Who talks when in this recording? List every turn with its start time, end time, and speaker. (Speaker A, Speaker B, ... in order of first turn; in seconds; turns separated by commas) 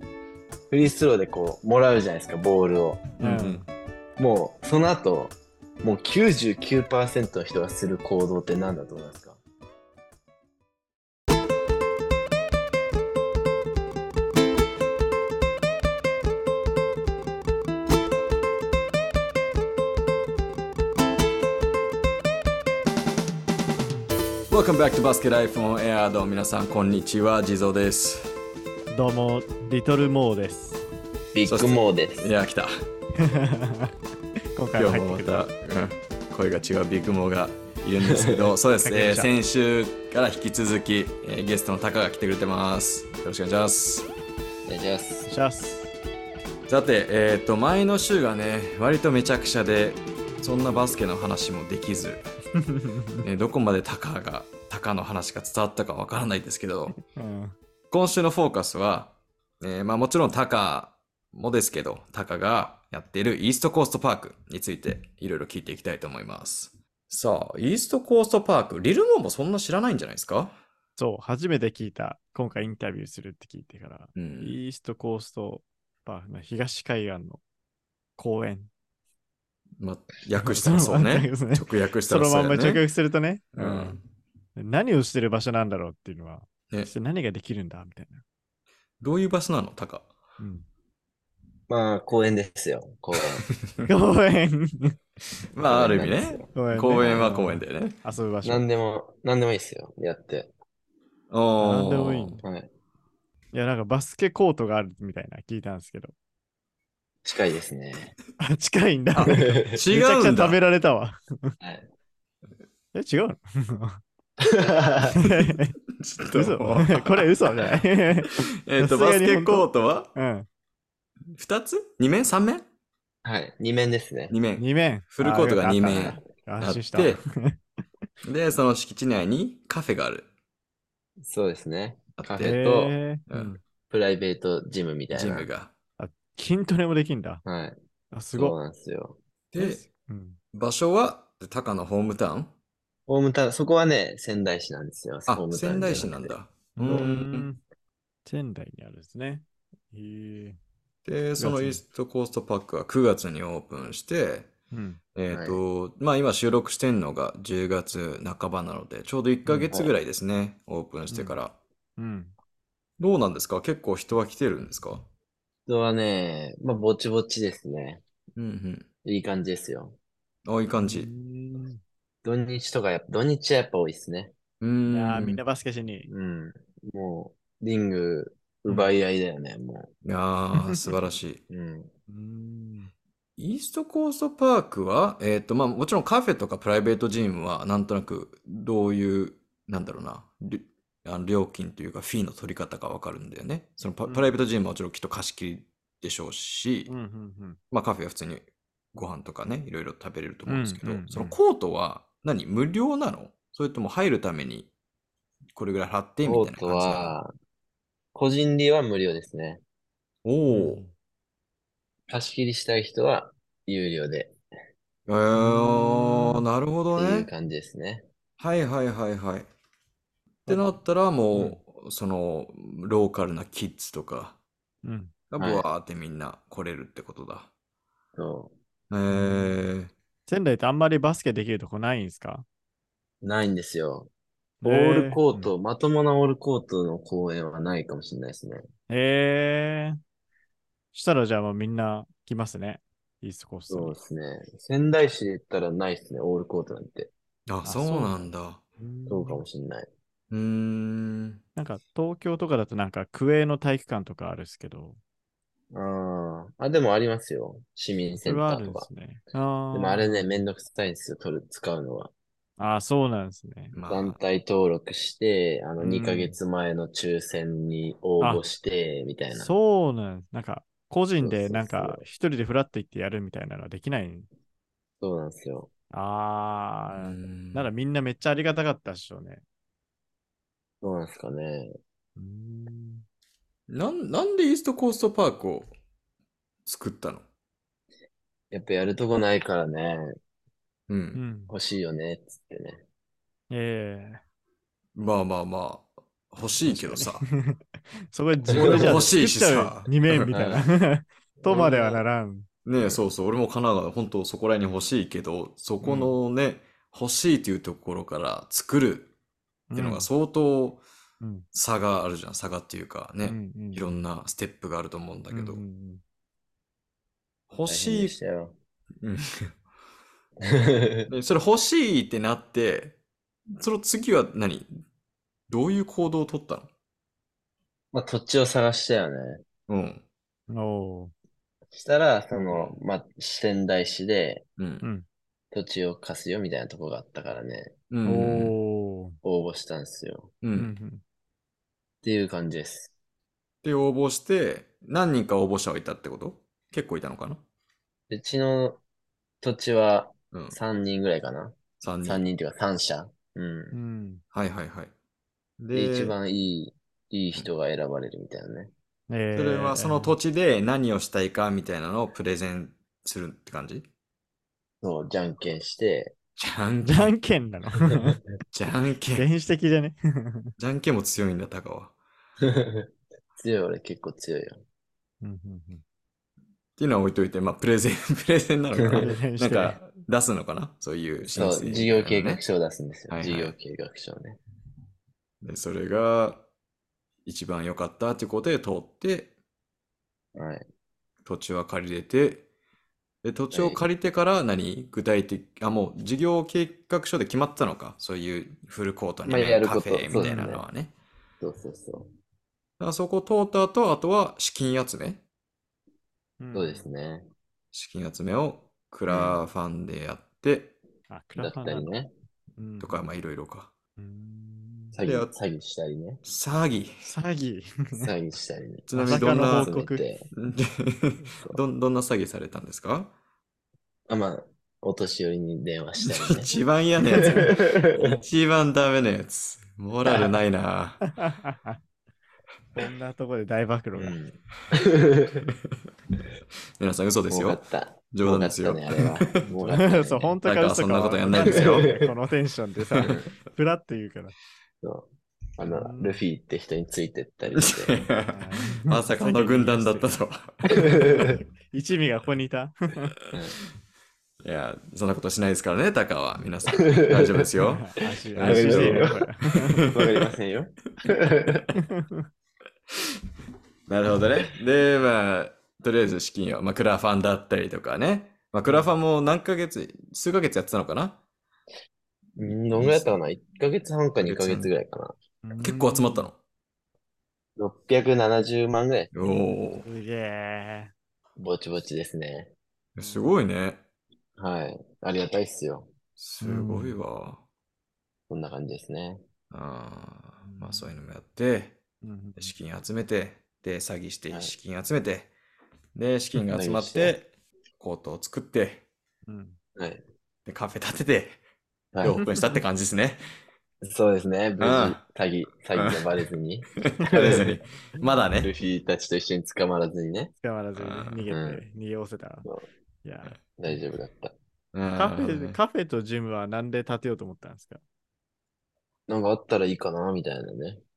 Speaker A: 0.7-3.1, Speaker B: 3.2-3.6, Speaker C: 3.2-3.6, Speaker A: 4.2-9.4, Speaker C: 24.5-28.3, Speaker B: 28.9-30.8, Speaker A: 31.3-32.3, Speaker C: 31.4-32.7, Speaker B: 33.2-33.9, Speaker B: 34.5-35.5, Speaker C: 34.7-44.1, Speaker A: 38.0-38.5, Speaker B: 38.8-39.3, Speaker A: 44.7-45.3, Speaker B: 45.3-45.9, Speaker C: 46.7-52.2, Speaker B: 52.6-53.2, Speaker C: 53.2-57.0, Speaker B: 56.9-57.5, Speaker C: 57.9-70.6, Speaker B: 71.0-77.4, Speaker C: 74.2-74.6, Speaker B: 78.2-78.7, Speaker C: 79.8-82.8, Speaker B: 80.3-84.0, Speaker C: 83.5-84.0, Speaker B: 84.5-88.2, Speaker C: 89.0-90.1, Speaker B: 90.4-90.7, Speaker A: 91.7-93.5, Speaker B: 93.8-95.0, Speaker C: 95.5-97.9, Speaker A: 95.7-97.2, Speaker B: 96.5-98.6, Speaker A: 98.4-100.5, Speaker C: 101.3-102.4, Speaker B: 101.6-102.4, Speaker B: 103.5-106.1, Speaker A: 107.2-108.1, Speaker B: 108.4-111.5, Speaker C: 109.1-110.6, Speaker A: 109.2-109.8, Speaker A: 111.6-111.9, Speaker B: 112.9-114.0, Speaker A: 114.4-115.2, Speaker B: 115.1-115.8, Speaker C: 115.9-117.8, Speaker B: 116.3-120.5, Speaker C: 118.6-120.1, Speaker C: 121.3-122.6, Speaker A: 123.2-124.3, Speaker C: 124.3-127.2, Speaker B: 124.5-127.6, Speaker A: 125.9-126.2, Speaker C: 128.2-130.2, Speaker A: 131.2-132.9, Speaker C: 132.2-132.6, Speaker B: 132.4-133.5, Speaker C: 133.3-133.6, Speaker A: 133.9-135.5, Speaker C: 135.1-135.7, Speaker B: 136.0-137.4, Speaker A: 137.4-137.8, Speaker B: 138.1-138.6, Speaker A: 138.3-139.2, Speaker C: 139.5-139.8, Speaker B: 139.6-140.4, Speaker C: 140.5-142.5, Speaker A: 143.1-147.1, Speaker C: 145.3-147.5, Speaker B: 146.8-147.6, Speaker B: 148.2-150.6, Speaker C: 151.0-154.5, Speaker B: 151.4-151.8, Speaker B: 154.7-155.0, Speaker C: 155.1-161.5, Speaker A: 155.3-155.6, Speaker B: 159.4-159.7, Speaker B: 161.1-161.4, Speaker B: 162.0-162.3, Speaker C: 163.0-165.0, Speaker A: 165.7-168.0, Speaker C: 168.3-168.8, Speaker A: 169.0-170.0, Speaker C: 170.4-171.1, Speaker B: 170.8-171.8, Speaker A: 172.2-174.3, Speaker C: 174.6-175.4, Speaker B: 174.9-176.1, Speaker A: 176.1-179.9, Speaker C: 180.0-181.4, Speaker B: 180.6-180.9, Speaker A: 181.5-181.9, Speaker B: 182.1-182.9, Speaker C: 183.4-196.9, Speaker B: 194.1-194.3, Speaker B: 196.9-197.6, Speaker C: 197.7-204.7, Speaker B: 200.5-201.3, Speaker C: 205.5-207.2, Speaker A: 206.2-207.3, Speaker A: 208.1-209.6, Speaker C: 210.2-210.8, Speaker B: 210.5-210.9, Speaker A: 212.1-214.3, Speaker C: 215.1-217.3, Speaker B: 215.3-216.4, Speaker A: 216.9-218.1, Speaker C: 218.4-219.5, Speaker B: 220.4-220.7, Speaker C: 220.4-224.3, Speaker B: 221.3-221.6, Speaker B: 224.8-225.1, Speaker C: 225.3-227.5, Speaker A: 225.4-225.6, Speaker A: 228.2-228.5, Speaker C: 228.9-229.9, Speaker B: 229.1-229.5, Speaker B: 230.3-232.4, Speaker A: 233.2-234.1, Speaker B: 234.6-235.5, Speaker A: 234.6-238.6, Speaker B: 238.9-240.0, Speaker B: 240.9-244.0, Speaker A: 243.7-247.1, Speaker C: 247.5-248.6, Speaker B: 247.6-248.3, Speaker B: 248.8-249.4, Speaker A: 249.1-249.9, Speaker C: 250.3-251.4, Speaker B: 251.6-255.0, Speaker A: 255.7-258.9, Speaker B: 258.2-260.4, Speaker A: 259.7-262.1, Speaker B: 262.6-263.7, Speaker C: 263.7-264.2, Speaker A: 263.9-269.5, Speaker B: 265.8-266.4, Speaker B: 269.3-274.3, Speaker A: 271.2-272.0, Speaker A: 275.0-275.7, Speaker B: 275.9-279.4, Speaker C: 276.9-277.7, Speaker A: 280.8-281.7, Speaker B: 282.1-283.0, Speaker C: 283.7-285.7, Speaker C: 286.6-287.2, Speaker A: 288.5-290.1, Speaker C: 290.9-291.2, Speaker B: 291.1-291.5, Speaker A: 291.5-292.8, Speaker B: 293.5-294.2, Speaker C: 294.9-297.2, Speaker B: 296.6-297.6, Speaker B: 298.1-302.5, Speaker C: 298.5-300.3, Speaker A: 298.5-299.1, Speaker A: 300.3-300.6, Speaker A: 301.4-302.0, Speaker C: 302.6-309.1, Speaker B: 305.8-306.1, Speaker B: 309.7-310.1, Speaker C: 309.8-310.8, Speaker B: 311.2-311.4, Speaker C: 311.5-315.6, Speaker B: 313.2-313.9, Speaker B: 315.3-316.0, Speaker C: 317.5-318.2, Speaker A: 317.6-318.5, Speaker C: 319.0-319.5, Speaker A: 320.4-321.1, Speaker C: 321.1-322.9, Speaker C: 323.5-324.8, Speaker C: 325.5-326.7, Speaker A: 327.9-329.4, Speaker C: 329.7-330.0, Speaker B: 330.5-331.1, Speaker A: 331.7-334.4, Speaker C: 334.6-334.8, Speaker A: 335.5-337.7, Speaker C: 337.9-338.5, Speaker B: 338.0-339.2, Speaker A: 339.2-340.3, Speaker C: 340.4-340.7, Speaker B: 340.5-341.0, Speaker A: 342.0-342.9, Speaker C: 343.6-347.4, Speaker A: 348.1-348.8, Speaker A: 349.4-353.8, Speaker C: 351.8-352.2, Speaker B: 353.7-354.2, Speaker C: 354.3-354.9, Speaker C: 355.6-356.1, Speaker A: 355.7-358.7, Speaker B: 359.1-360.1, Speaker C: 359.3-363.8, Speaker A: 364.8-366.1, Speaker C: 366.4-367.1, Speaker B: 366.8-368.2, Speaker C: 368.5-369.2, Speaker B: 369.1-370.5, Speaker C: 370.6-371.9, Speaker A: 372.4-374.6, Speaker B: 375.2-375.8, Speaker C: 376.8-382.4, Speaker A: 378.8-379.1, Speaker B: 378.9-379.8, Speaker A: 381.3-384.4, Speaker C: 383.1-383.5, Speaker C: 385.4-386.4, Speaker C: 387.2-389.3, Speaker A: 390.3-390.6, Speaker C: 391.2-392.4, Speaker C: 393.2-400.9, Speaker A: 393.5-393.8, Speaker A: 399.2-400.6, Speaker B: 400.1-400.4, Speaker A: 401.4-402.1, Speaker C: 402.8-405.2, Speaker B: 406.4-406.8, Speaker A: 406.5-407.3, Speaker C: 407.7-410.7, Speaker A: 409.1-409.4, Speaker B: 411.1-411.9, Speaker A: 411.4-412.1, Speaker B: 412.6-413.1, Speaker C: 412.8-413.7, Speaker B: 414.0-415.0, Speaker A: 414.9-416.2, Speaker C: 415.0-415.3, Speaker C: 416.2-417.1, Speaker B: 417.0-418.1, Speaker A: 417.9-420.2, Speaker C: 418.9-419.7, Speaker B: 418.9-420.0, Speaker C: 420.3-423.1, Speaker A: 424.1-426.5, Speaker C: 426.0-431.1, Speaker A: 427.1-428.2, Speaker A: 430.0-430.3, Speaker B: 431.1-431.8, Speaker B: 432.8-434.2, Speaker A: 434.0-435.4, Speaker C: 435.5-435.8, Speaker C: 436.8-439.4, Speaker A: 437.3-440.4, Speaker B: 439.5-444.3, Speaker C: 440.4-442.0, Speaker A: 441.4-442.1, Speaker A: 443.0-443.3, Speaker A: 444.8-448.1, Speaker B: 445.6-446.2, Speaker C: 447.6-451.2, Speaker B: 448.3-450.1, Speaker B: 450.6-453.2, Speaker A: 450.7-451.3, Speaker A: 453.3-453.6, Speaker C: 454.4-460.0, Speaker A: 456.8-457.5, Speaker B: 457.6-459.9, Speaker A: 458.4-459.2, Speaker A: 459.8-461.6, Speaker C: 461.5-461.7, Speaker B: 461.8-462.3, Speaker C: 463.9-471.2, Speaker B: 468.6-468.9, Speaker A: 472.4-475.1, Speaker C: 472.4-473.1, Speaker C: 474.2-474.7, Speaker B: 475.4-476.3, Speaker C: 475.6-476.3, Speaker A: 477.6-479.1, Speaker C: 479.1-479.8, Speaker B: 479.8-480.9, Speaker A: 481.4-482.5, Speaker C: 482.9-483.8, Speaker B: 483.0-483.4, Speaker A: 484.4-485.9, Speaker C: 486.2-487.4, Speaker B: 486.4-487.0, Speaker A: 488.3-489.2, Speaker C: 489.5-491.8, Speaker B: 490.4-490.9, Speaker B: 492.0-492.5, Speaker C: 492.4-495.3, Speaker C: 495.9-497.3, Speaker A: 496.5-497.1, Speaker C: 497.8-498.8, Speaker B: 499.2-499.6, Speaker A: 499.8-500.0, Speaker C: 500.4-501.4, Speaker A: 501.9-502.2, Speaker C: 502.0-503.2, Speaker B: 502.1-502.6, Speaker A: 503.8-507.6, Speaker C: 504.6-505.0, Speaker C: 506.8-508.5, Speaker A: 508.4-510.3, Speaker B: 510.4-512.5, Speaker C: 510.8-511.2, Speaker A: 511.3-511.6, Speaker B: 513.0-513.8, Speaker A: 513.6-514.3, Speaker C: 514.7-515.6, Speaker B: 515.0-517.8, Speaker A: 519.1-520.8